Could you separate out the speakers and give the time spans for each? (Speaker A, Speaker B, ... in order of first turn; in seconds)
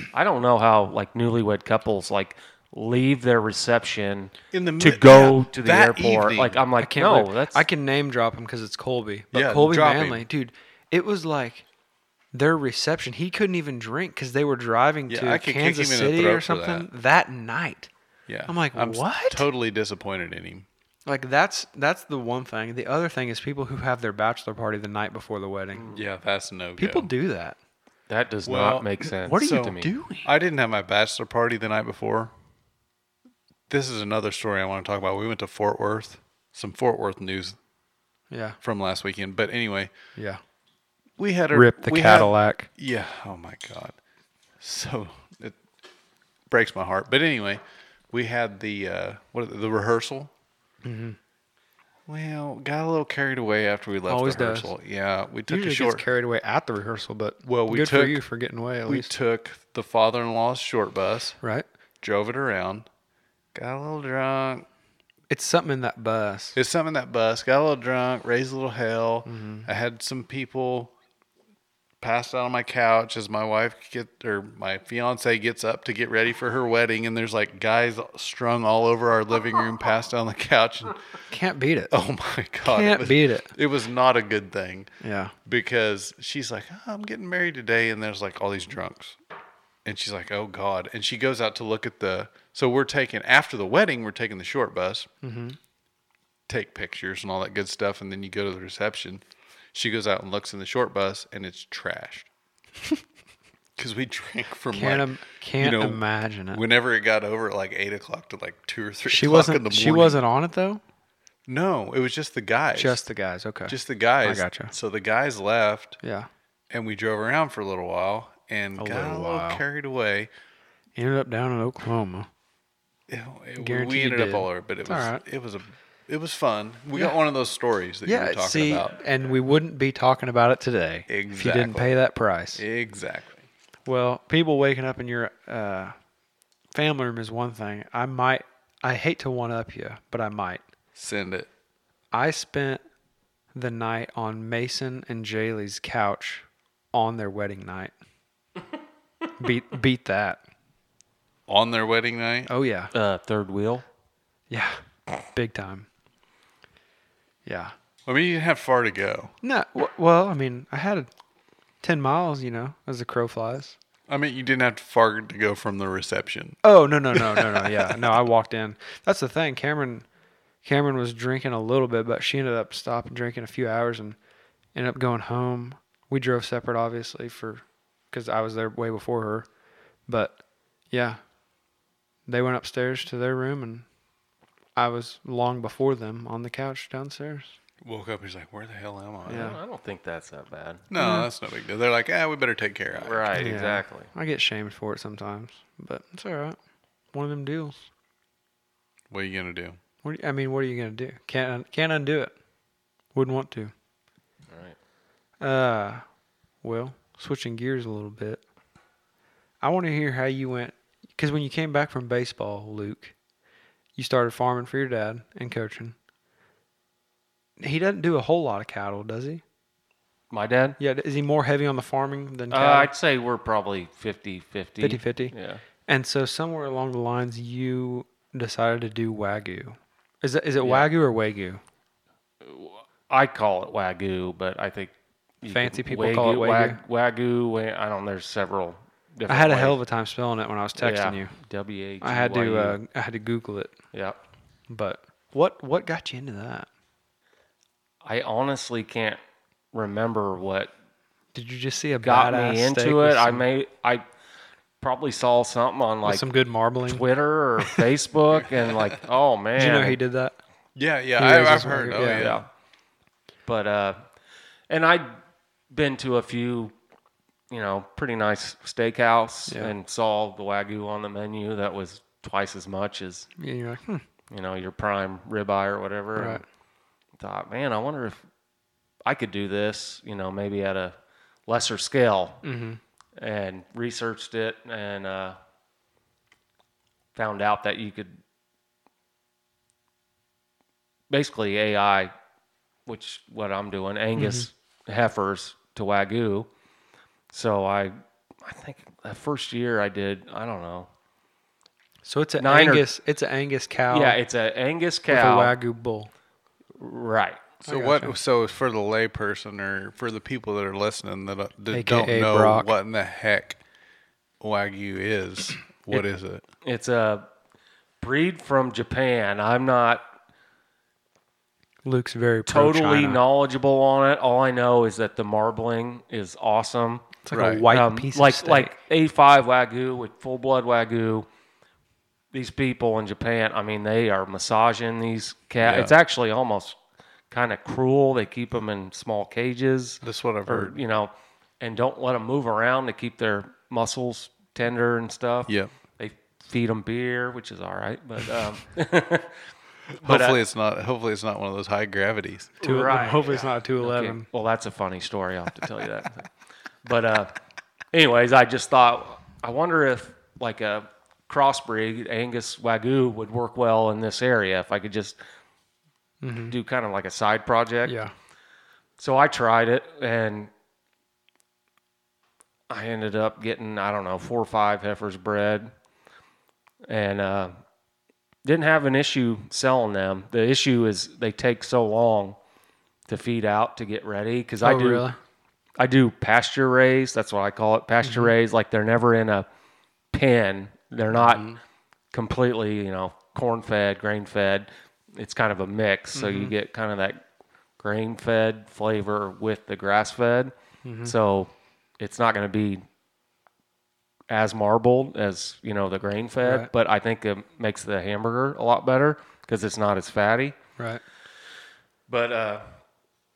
Speaker A: 0.1-7.6, 28.1-29.9, 152.9-153.8, 189.3-190.8, 193.0-194.1, 204.5-204.8, 220.3-220.8, 222.5-225.6, 230.6-230.9, 232.4-239.8, 240.8-242.8, 248.0-249.2, 249.7-250.7, 252.0-254.0, 254.8-256.2, 256.9-260.0, 261.9-262.5, 263.4-264.0, 264.7-265.1, 265.7-266.7, 267.5-273.3, 274.3-276.4, 277.2-278.2, 279.0-280.9, 281.5-282.4, 283.2-285.4, 287.1-288.1, 291.1-292.1, 292.9-296.5, 297.3-300.9, 302.4-302.8, 303.9-305.5, 306.8-307.5, 316.6-317.3, 318.0-320.0, 322.4-331.3, 332.3-336.8, 337.3-349.4, 350.0-350.4, 352.6-356.3, 356.8-357.3, 357.9-365.2, 366.5-367.9, 369.0-370.5, 372.7-375.7, 376.9-377.5, 378.4-382.4, 383.1-385.1, 385.8-389.5, 390.1-391.6, 392.1-397.2, 397.8-400.5, 401.0-402.8, 404.3-410.6, 412.1-412.7
Speaker B: 4.5-6.6, 9.3-10.2, 15.1-16.9, 18.3-20.7, 25.9-27.1, 28.4-32.3, 33.7-37.6, 38.6-39.9, 41.2-44.0, 44.6-45.6, 46.5-50.3, 52.1-56.0, 57.4-58.2, 58.9-61.4, 62.0-62.9, 63.5-64.7, 66.5-70.9, 72.0-81.0, 81.9-84.9, 85.5-89.2, 89.8-95.1, 96.5-102.3, 103.8-110.2, 111.5-113.0, 113.7-116.0, 116.7-120.3, 123.1-128.9, 131.1-131.9, 132.6-133.4, 140.9-141.5, 151.5-152.5, 158.1-159.3, 164.1-166.6, 167.1-168.0, 187.8-189.5, 190.9-193.5, 199.1-199.8, 260.8-262.4, 307.6-313.6, 314.4-316.4, 327.3-327.7, 335.6-335.9, 340.0-340.8, 349.9-352.6
Speaker C: 6.8-11.7, 12.3-17.9, 18.5-19.4, 21.1-25.9, 26.8-27.6, 29.2-30.3, 38.3-38.6, 40.1-40.4, 41.5-42.7, 50.8-51.2, 54.1-54.7, 55.5-59.1, 65.3-66.5, 69.2-69.7, 81.3-81.9, 82.6-83.5, 85.0-85.3, 95.2-95.6, 104.7-106.6, 109.0-110.8, 112.7-114.7, 116.0-116.3, 118.8-119.6, 121.0-122.3, 123.6-125.2, 128.1-132.6, 133.8-135.9, 136.7-140.6, 142.1-142.8, 143.5-147.9, 149.4-150.4, 152.5-152.9, 154.5-154.8, 155.3-155.9, 157.4-157.7, 159.4-161.1, 161.8-163.8, 166.6-170.0, 170.6-174.2, 174.7-179.5, 180.1-181.2, 182.3-183.8, 184.8-187.5, 189.3-189.6, 190.9-191.3, 193.3-196.6, 197.1-197.8, 200.0-202.3, 203.1-203.7, 205.4-206.0, 206.6-208.4, 209.6-213.1, 213.9-215.9, 217.6-219.4, 220.8-222.9, 224.8-225.3, 225.9-231.6, 235.5-236.8, 239.3-241.3, 242.0-243.7, 244.7-246.7, 251.3-253.4, 256.0-257.0, 259.6-260.4, 261.2-262.3, 269.5-269.7, 273.4-274.0, 276.1-276.4, 282.4-282.8, 294.1-294.5, 302.0-304.2, 305.1-306.1, 307.6-308.1, 311.7-312.7, 321.8-323.2, 327.2-328.7, 352.6-354.2, 366.2-366.5, 367.9-368.1, 384.6-385.2, 388.0-388.3, 396.1-396.5, 400.8-401.1, 406.4-406.7